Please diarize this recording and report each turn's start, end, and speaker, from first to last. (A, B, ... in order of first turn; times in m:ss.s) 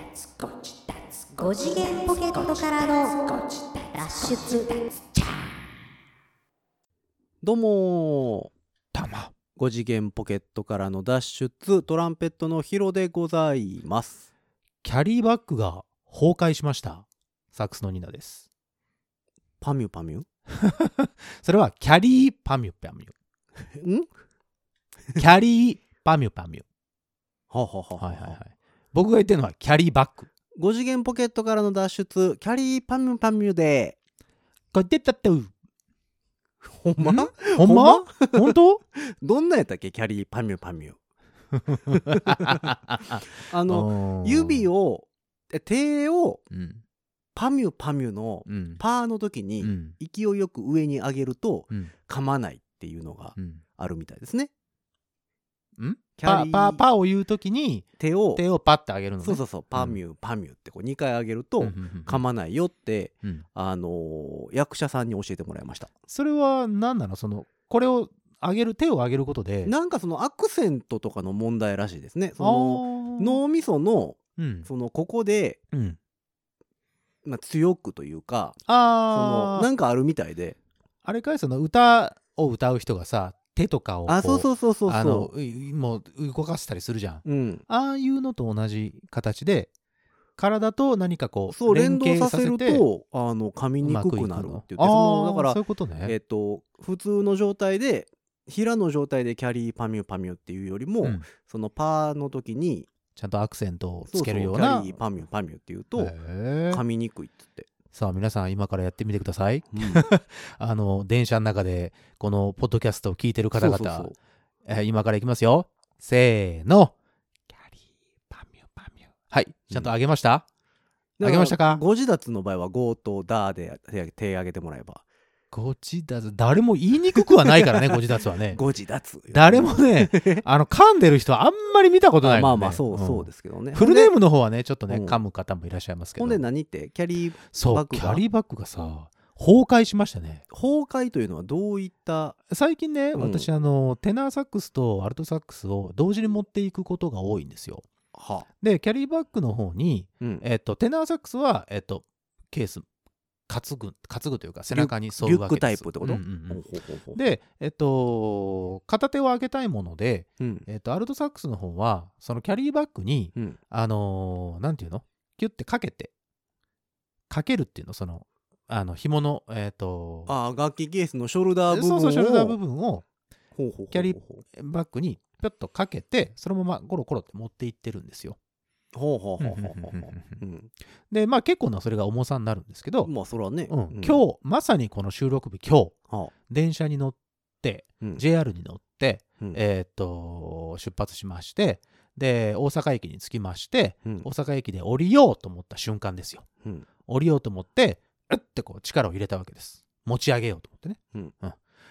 0:01.3-0:04.9 A
0:07.4-0:08.5 B
0:08.9-0:09.3 C
0:09.6-0:14.3 B
0:14.8-0:18.4 C
0:19.6-0:20.2 B
0:20.5-0:23.1 C
0:23.8-0:24.1 B
0:25.2-0:26.6 C
0:27.5-0:28.4 B
0:28.0-0:30.3 C
0:30.5-0:34.0 B
0:34.7-0:35.5 C
0:36.6-0:41.0 B
0:37.0-0:38.8 C
0:41.7-0:44.7 C
0:41.9-0:42.8 B
0:43.3-0:46.4 B
0:46.5-0:46.8 C
0:47.3-0:54.5 B
0:48.4-0:48.8 C
0:49.6-0:49.9 C
0:53.4-0:53.6 C
0:55.8-1:00.0 C
0:56.2-0:56.8 B
0:58.0-0:58.4 B
0:59.2-1:05.9 B
1:01.6-1:02.2 C
1:06.1-1:09.7 C
1:09.6-1:15.6 B
1:12.4-1:13.4 C
1:14.4-1:14.7 C
1:15.7-1:16.0 C
1:17.2-1:18.6 B
1:18.7-1:19.7 C
1:19.1-1:20.6 B
1:21.0-1:29.7 C
1:24.1-1:25.3 B
1:27.2-1:27.6 B
1:30.4-1:32.8 C
1:31.5-1:42.9 B
1:33.8-1:36.1 C
1:43.1-1:45.0 C
1:44.1-1:46.1 B
1:46.0-1:46.8 C
1:46.7-1:47.7 B
1:47.9-1:54.1 C
1:49.7-1:50.0 B
1:53.5-1:54.2 B
1:54.6-1:56.9 C
1:57.5-2:00.4 C
2:01.2-2:05.0 B
2:01.2-2:01.8 C
2:05.5-2:08.6 C
2:07.1-2:10.4 B
2:09.3-2:16.4 C
2:12.2-2:14.1 B
2:14.9-2:15.2 B
2:16.2-2:18.2 B
2:17.5-2:20.4 C
2:20.5-2:22.4 B
2:22.5-2:27.8 C
2:23.1-2:23.5 B
2:28.1-2:28.5 B
2:28.6-2:32.8 C
2:33.5-2:36.6 C
2:34.7-2:37.2 B
2:37.1-2:46.1 C
2:40.4-2:40.6 B
2:47.3-2:50.3 C
2:50.3-2:52.6 B
2:51.7-2:53.0 C
2:53.6-2:54.4 B
2:53.9-2:58.4 C
2:58.9-3:00.7 B
2:59.4-3:00.4 C
3:01.1-3:03.1 C
3:03.0-3:04.2 B
3:03.7-3:06.0 C
3:06.5-3:16.4 C
3:17.0-3:21.6 C